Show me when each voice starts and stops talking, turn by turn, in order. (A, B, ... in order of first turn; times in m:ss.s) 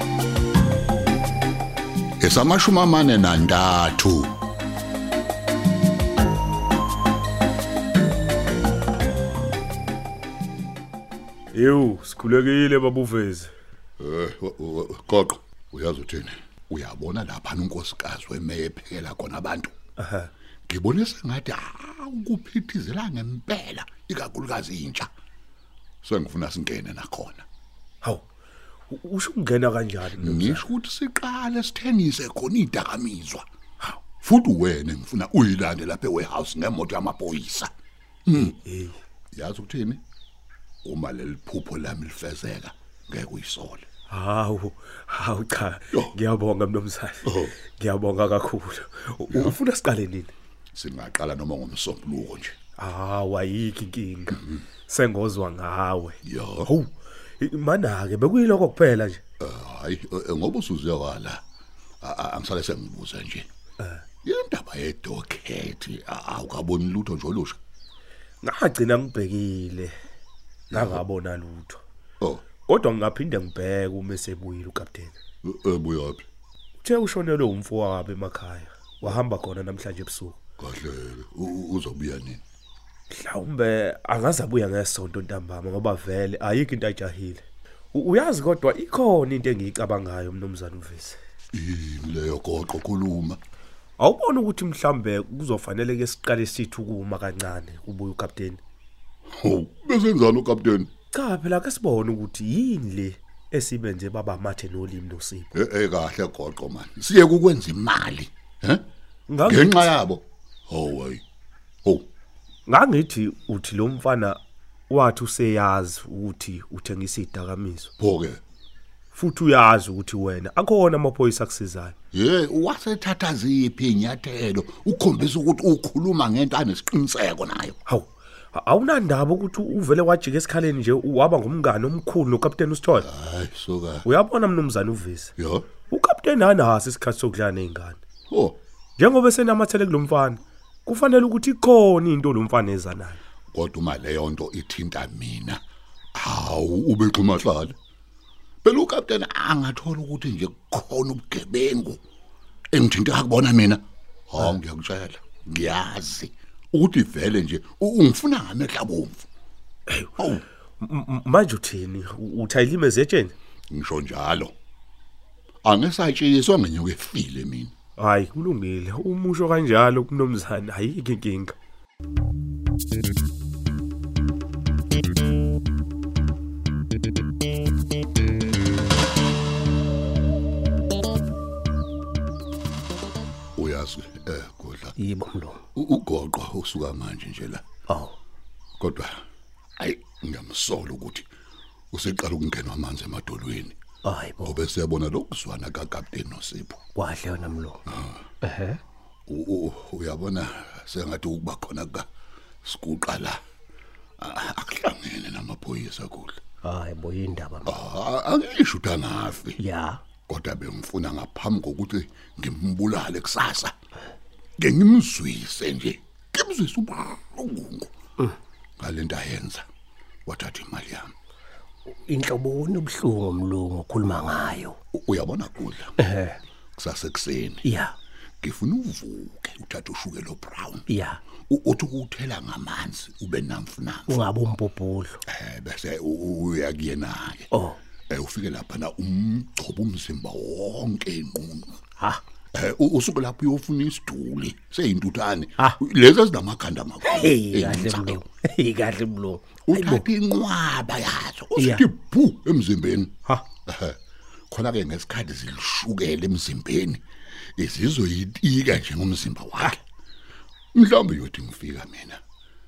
0:02.2-0:04.3 A
0:11.5-0:13.5 B
0:14.0-0:19.8 A
0:20.0-0:20.3 B
0:20.7-0:25.1 A
0:26.0-0:27.4 A
0:28.9-0:30.6 B
0:30.2-0:33.4 A
0:34.0-0:37.7 A
0:38.3-0:38.6 A
0:38.4-0:39.0 B
0:39.3-0:40.0 A
0:40.8-0:43.9 A
0:44.1-0:50.3 B
0:47.2-0:47.6 A
0:50.7-0:52.6 A
0:52.8-0:59.2 B
0:56.2-0:56.7 A
0:59.4-1:01.4 A
1:02.0-1:03.5 A
1:04.2-1:07.6 A
1:08.4-1:09.9 B
1:10.7-1:11.0 A
1:10.7-1:11.8 B
1:12.7-1:15.2 B
1:15.4-1:16.2 A
1:16.8-1:20.4 B
1:20.6-1:22.4 A
1:23.1-1:31.2 B
1:31.5-1:33.4 A
1:34.0-1:38.6 B
1:39.3-1:40.9 A
1:41.1-1:45.5 B
1:45.5-1:48.9 A
1:49.3-1:49.9 B
1:49.4-1:51.2 A
1:52.7-1:54.4 B
1:54.9-1:57.9 B
1:58.0-1:58.4 A
1:59.1-2:01.9 B
2:02.1-2:07.8 A
2:07.9-2:13.1 B
2:13.0-2:14.1 A
2:14.0-2:15.3 B
2:15.4-2:15.7 A
2:15.9-2:18.0 B
2:18.3-2:18.6 A
2:19.0-2:23.2 B
2:23.5-2:25.6 A
2:26.1-2:27.8 A
2:28.6-2:32.0 A
2:32.7-2:39.3 A
2:40.2-2:40.4 A
2:40.8-2:43.3 B
2:43.7-2:44.5 A
2:45.6-2:47.7 A
2:48.0-2:51.6 B
3:03.6-3:05.0 A
3:05.0-3:05.6 C
3:05.8-3:07.6 A
3:07.9-3:08.1 C
3:08.8-3:09.2 A
3:09.8-3:11.3 A
3:11.9-3:13.8 A
3:14.0-3:14.6 C
3:14.4-3:16.8 A
3:17.0-3:17.8 C
3:17.9-3:18.2 A
3:18.4-3:18.8 C
3:19.3-3:22.1 A
3:22.7-3:23.4 A
3:24.2-3:26.4 A
3:26.6-3:27.8 C
3:27.6-3:29.6 A
3:29.6-3:30.0 C
3:30.3-3:33.7 A
3:34.6-3:37.9 A
3:38.8-3:39.6 A
3:40.3-3:41.1 A
3:41.9-3:44.8 C
3:44.9-3:45.9 A
3:46.0-3:46.4 C
3:46.8-3:47.7 A
3:47.6-3:47.9 C
3:48.4-3:50.9 A
3:50.9-3:51.2 C
3:51.5-3:54.3 A
3:54.1-3:55.2 C
3:55.3-3:57.5 A
3:58.1-4:01.8 A
4:02.5-4:08.2 A
4:07.0-4:10.0 C
4:09.7-4:14.0 A
4:11.6-4:11.9 C
4:14.5-4:17.0 A
4:17.6-4:19.8 A
4:20.8-4:22.2 A